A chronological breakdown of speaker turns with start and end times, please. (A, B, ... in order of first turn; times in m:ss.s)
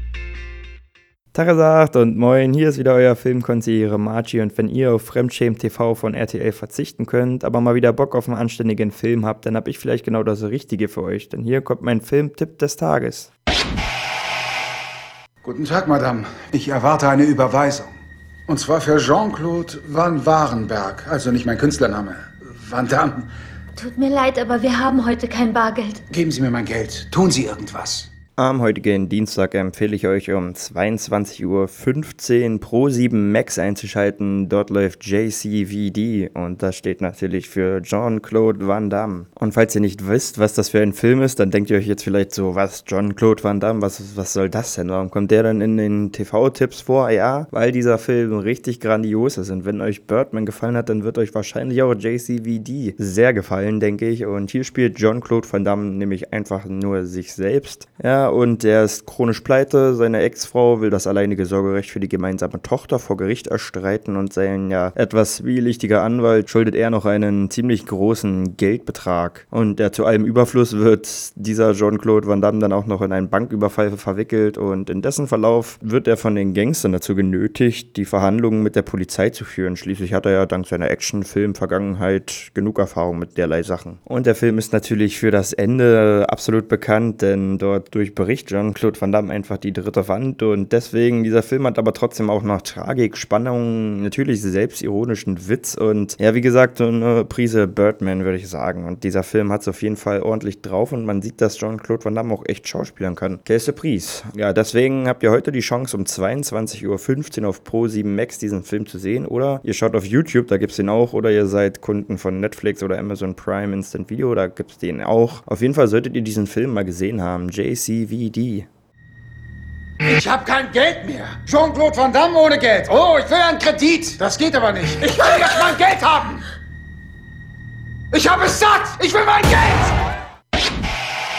0:01.3-0:13.3 A
0:15.4-0:17.9 B
0:18.5-0:23.3 B
0:23.8-0:26.0 C
0:26.1-0:28.1 B
0:28.4-1:58.7 A
2:00.0-2:06.5 B
2:08.1-2:10.0 B